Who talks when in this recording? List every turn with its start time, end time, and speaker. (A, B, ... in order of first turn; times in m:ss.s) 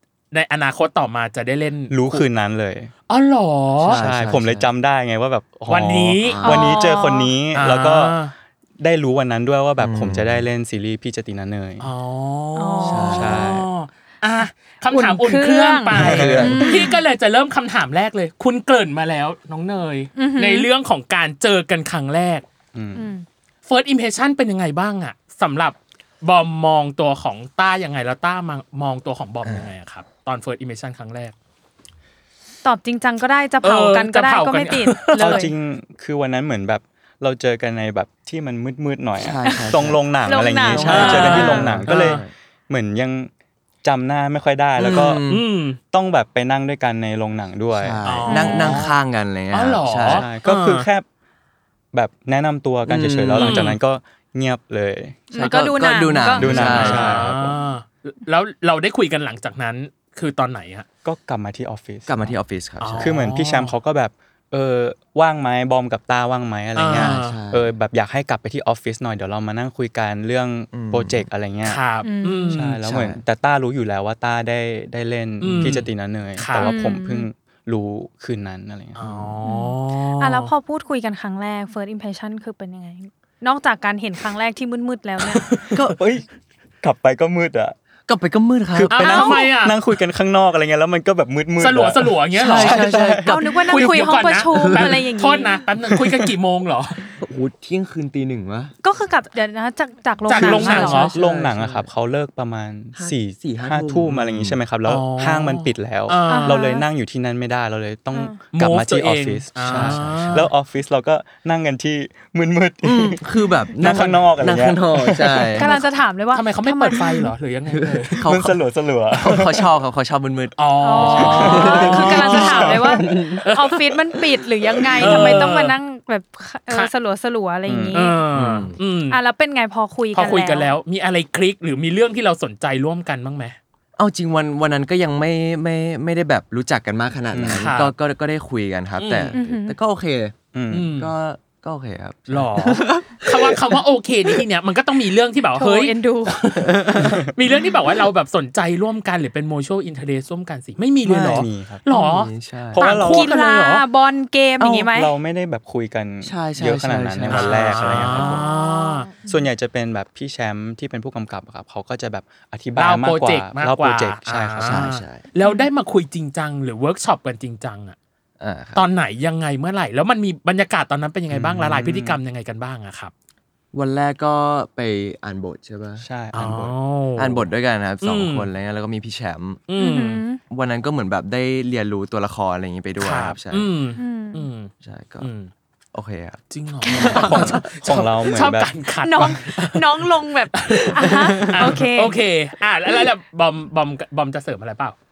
0:00.3-0:02.2 A
0:01.9-0:02.9 B
0:03.1-0:04.0 A
0:03.8-0:04.7 C
0:03.9-0:08.2 B
0:05.7-0:06.5 A
0:06.2-0:06.7 C
0:06.4-0:07.3 D
0:07.5-0:08.3 A
0:08.8-0:11.9 B
0:09.8-0:10.4 C
0:11.8-0:22.4 A
0:12.6-0:13.3 D
0:12.8-0:13.4 C
0:13.1-0:13.7 B
0:14.9-0:17.0 D
0:15.9-0:16.7 C
0:15.9-0:16.5 B
0:20.2-0:20.7 D
0:22.7-0:23.1 B
0:22.9-0:23.2 D
0:23.7-0:31.3 A
0:29.4-0:29.7 C
0:32.6-0:35.5 D
0:33.6-0:35.4 A
0:35.1-0:43.3 B
0:39.2-0:40.0 C
0:40.3-0:41.8 D
0:40.7-0:42.3 C
0:40.8-0:42.2 A
0:43.8-0:45.2 B
0:44.8-0:45.4 C
0:45.2-0:45.8 A
0:45.9-0:48.0 B
0:47.7-0:50.3 C
0:48.0-0:49.0 A
0:48.3-0:48.8 D
0:49.5-0:50.9 A
0:50.0-0:51.0 B
0:51.9-0:55.3 B
0:52.9-0:53.6 C
0:53.4-0:53.8 A
0:55.3-0:56.7 D
0:55.4-0:57.3 C
0:56.4-0:57.5 B
0:56.4-1:00.9 A
1:01.0-1:02.3 B
1:02.1-1:03.2 C
1:02.8-1:03.7 A
1:03.0-1:11.8 B
1:06.8-1:07.4 A
1:06.9-1:07.7 C
1:10.7-1:11.2 C
1:11.6-1:12.8 A
1:12.0-1:12.6 D
1:12.5-1:19.2 B
1:12.8-1:13.2 C
1:15.4-1:15.9 A
1:16.4-1:16.7 A
1:16.5-1:17.3 D
1:19.0-1:20.5 A
1:19.4-1:25.5 D
1:25.3-1:25.7 A
1:25.8-1:26.3 B
1:26.8-1:27.8 B
1:28.1-1:29.0 C
1:28.7-1:33.3 B
1:29.0-1:29.8 A
1:29.0-1:29.5 D
1:31.6-1:37.0 A
1:32.4-1:33.9 C
1:33.2-1:35.5 D
1:34.5-1:34.8 C
1:37.2-1:38.7 C
1:38.8-1:41.1 D
1:40.3-1:41.1 A
1:40.3-1:41.9 C
1:40.4-1:53.2 B
1:42.9-1:44.6 C
1:44.8-1:46.6 A
1:46.3-1:46.8 D
1:48.1-1:48.4 D
1:48.5-1:50.5 A
1:49.6-1:50.5 C
1:52.8-1:55.7 C
1:53.7-1:55.6 B
1:55.6-1:57.3 D
1:55.6-1:58.3 A
1:57.7-1:58.6 C
1:58.2-1:59.7 B
1:59.1-2:03.4 C
2:00.6-2:03.9 A
2:00.8-2:08.2 D
2:01.2-2:02.7 B
2:05.0-2:05.8 A
2:05.0-2:05.3 C
2:07.7-2:08.0 B
2:07.9-2:09.2 A
2:08.3-2:08.8 C
2:09.1-2:10.7 D
2:10.1-2:13.6 A
2:14.0-2:20.4 C
2:17.3-2:17.7 B
2:17.5-2:17.9 A
2:19.0-2:19.4 A
2:19.3-2:19.8 D
2:20.5-2:20.9 B
2:20.7-2:21.1 A
2:20.9-2:23.8 C
2:22.3-2:33.8 A
2:25.6-2:26.4 D
2:26.6-2:27.2 C
2:27.0-2:27.3 B
2:31.0-2:31.8 B
2:31.9-2:32.8 C
2:32.7-2:33.4 B
2:32.8-2:35.1 D
2:34.7-2:38.4 B
2:36.2-2:38.4 C
2:37.3-2:39.1 A
2:38.2-2:39.4 D
2:39.2-2:44.9 B
2:42.8-2:48.0 A
2:44.6-2:45.2 C
2:45.4-2:45.7 D
2:48.4-2:48.8 C
2:48.7-2:53.1 A
2:51.3-2:52.2 B
2:53.7-2:56.0 C
2:56.0-2:56.7 B
2:56.3-2:57.5 A
2:57.2-2:59.6 C
2:58.0-2:58.5 A
2:59.7-3:00.2 A
2:59.8-3:00.4 D
3:00.5-3:03.7 C
3:03.0-3:05.5 A
3:04.0-3:04.5 D
3:04.8-3:05.3 C
3:05.9-3:06.4 C
3:06.5-3:14.9 A
3:06.8-3:07.6 D
3:07.0-3:07.5 C
3:07.0-3:08.7 B
3:09.0-3:12.2 D
3:11.0-3:11.8 C